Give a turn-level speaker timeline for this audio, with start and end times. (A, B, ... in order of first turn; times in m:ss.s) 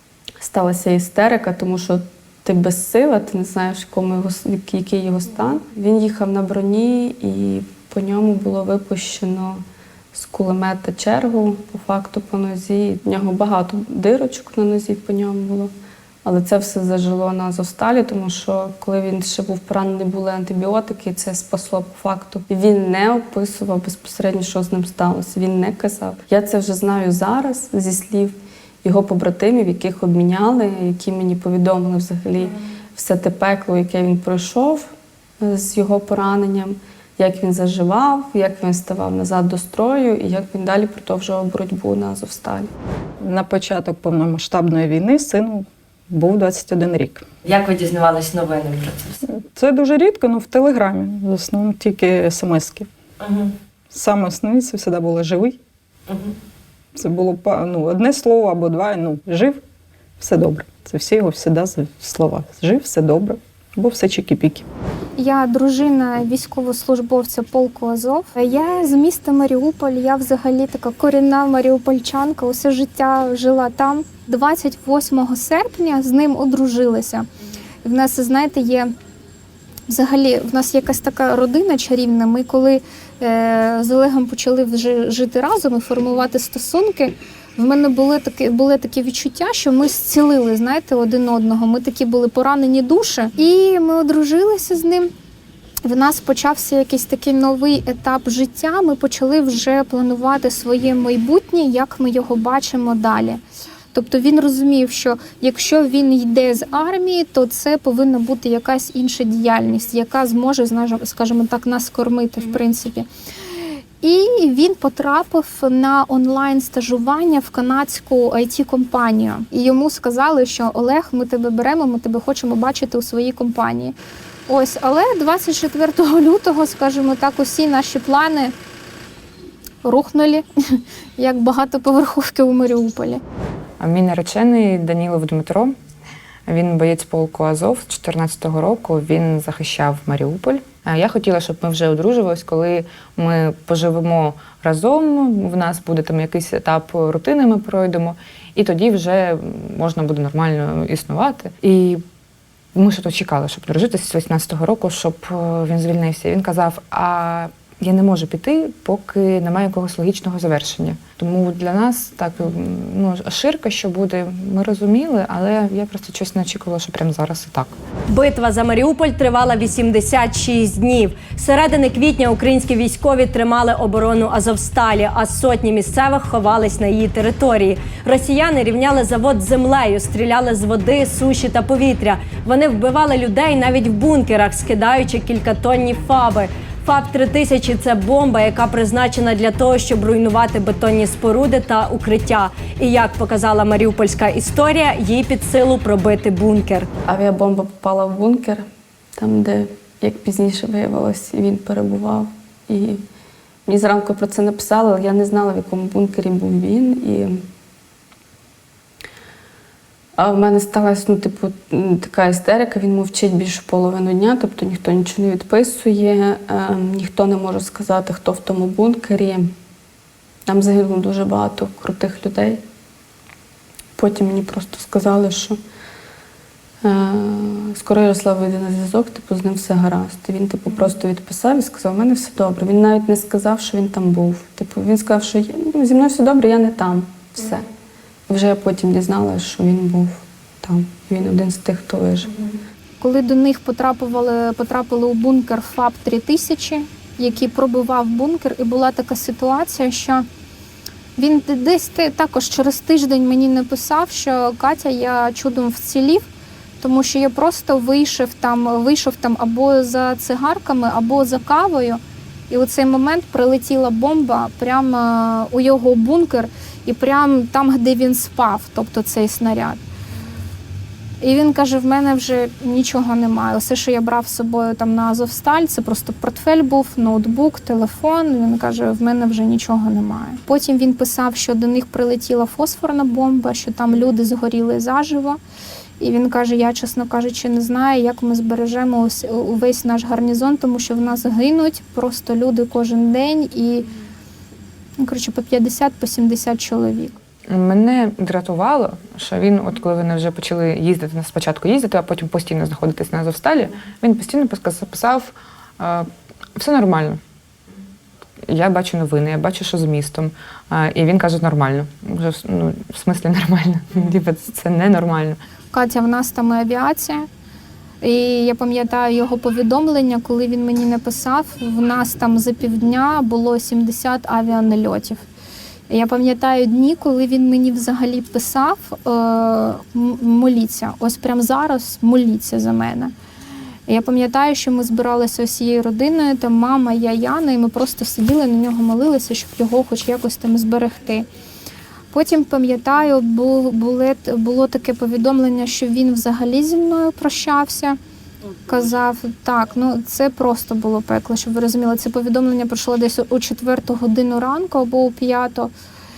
0:00.4-0:09.6 A
0:10.1-0:15.7 A
0:16.2-0:42.7 A
0:43.2-0:47.3 B
0:47.5-0:49.1 C
0:49.3-0:52.9 B
0:53.2-0:53.5 C
0:53.9-0:55.6 B
0:57.0-0:59.6 B
1:00.2-1:04.7 B
1:05.2-1:17.3 D
1:17.8-1:18.9 D
1:19.9-1:35.1 D
1:35.8-1:43.4 D
1:43.9-1:53.1 D
1:54.0-2:04.0 D
2:04.5-2:08.5 D
2:09.8-2:13.2 D
2:13.8-2:15.7 E
2:16.5-2:32.0 E
2:32.8-2:47.8 E
2:48.1-3:16.9 F
3:17.1-3:18.6 A
3:19.2-3:23.0 A
3:23.7-3:27.4 A
3:30.2-3:39.5 A
3:40.5-3:42.6 A
3:44.0-3:45.6 A
3:46.8-3:57.6 A
3:58.3-4:02.3 A
4:03.0-4:10.2 D
4:11.2-4:16.3 D
4:16.8-4:29.8 D
4:31.2-4:45.4 D
4:46.0-4:53.9 D
4:55.0-4:57.2 D
4:57.5-5:07.2 E
5:08.5-5:15.4 E
5:15.7-5:17.3 D
5:18.0-5:25.2 D
5:25.9-5:33.1 D
5:33.9-5:41.3 D
5:42.1-5:48.0 D
5:48.7-5:55.7 D